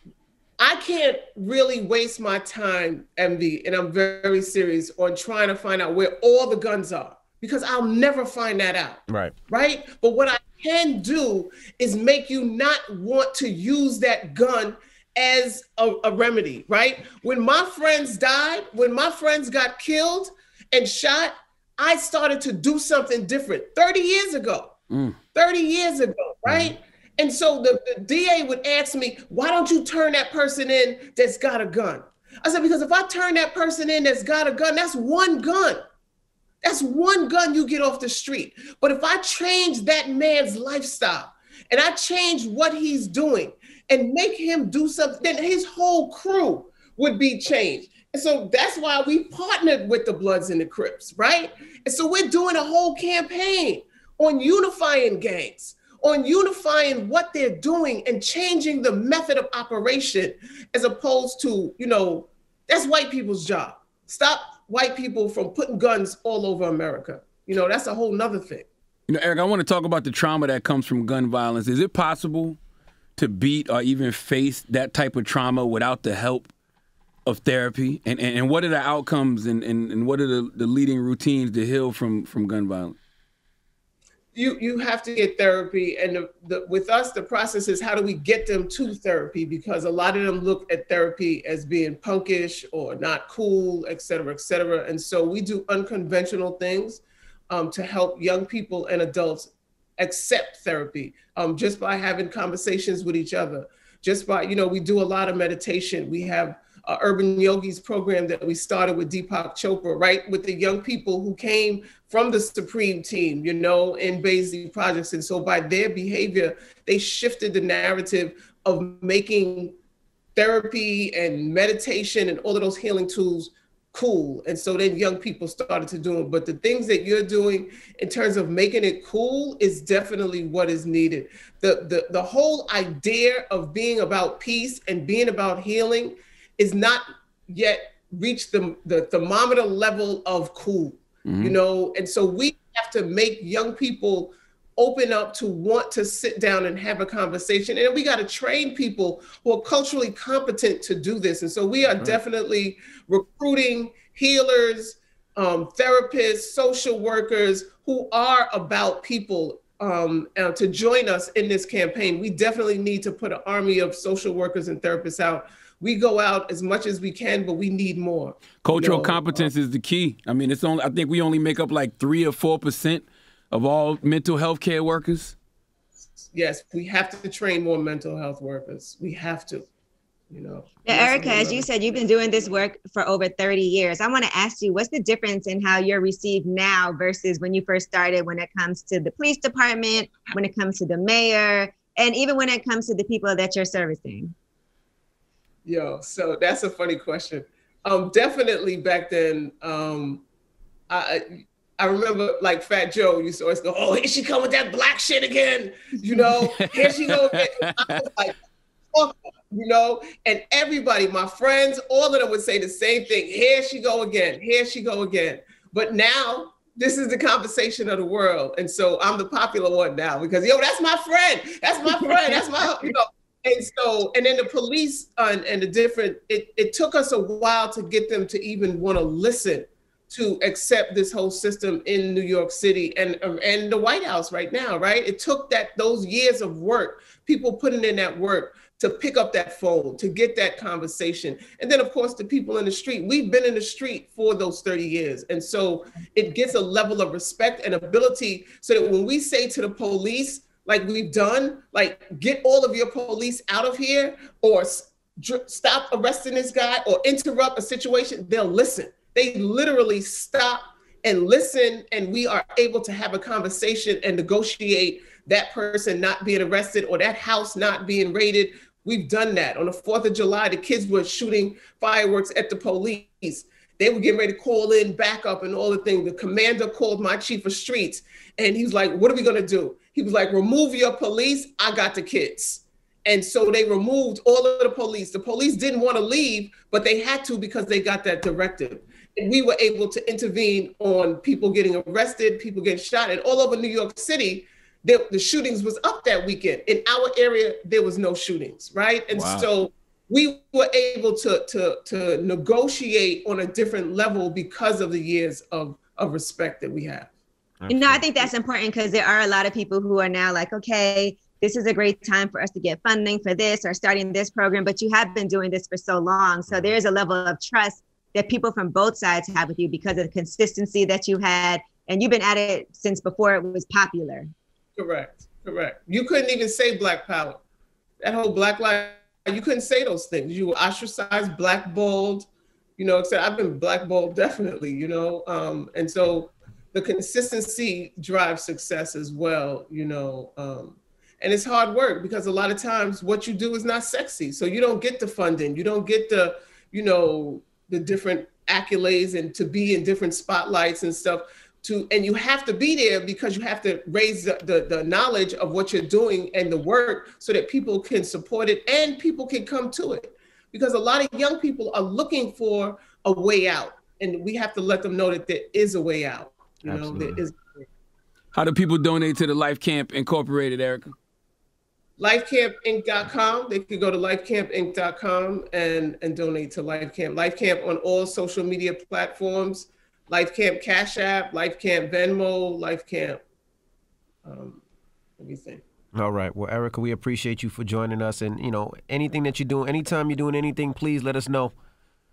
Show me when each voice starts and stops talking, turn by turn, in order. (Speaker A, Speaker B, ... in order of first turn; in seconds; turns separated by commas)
Speaker A: 0.6-24.7, Speaker B: 24.9-25.2, Speaker A: 25.3-35.8, Speaker C: 26.4-26.7, Speaker A: 36.6-68.7, Speaker B: 69.1-72.6, Speaker B: 73.2-76.5, Speaker B: 77.2-83.0, Speaker A: 84.3-119.7, Speaker A: 120.3-169.5, Speaker B: 141.2-141.6, Speaker B: 168.6-175.3, Speaker A: 176.2-179.7, Speaker A: 180.3-181.7, Speaker D: 180.8-194.3, Speaker A: 195.6-200.2, Speaker A: 200.9-201.2, Speaker A: 201.8-208.3, Speaker B: 206.2-207.9, Speaker A: 208.9-307.1, Speaker B: 299.1-299.5, Speaker C: 307.6-308.1, Speaker D: 307.7-324.3, Speaker A: 324.8-327.4, Speaker A: 328.0-367.6, Speaker C: 366.6-367.2, Speaker B: 368.3-370.9, Speaker A: 372.0-383.2, Speaker A: 384.2-384.6, Speaker A: 385.2-385.6, Speaker C: 385.9-391.5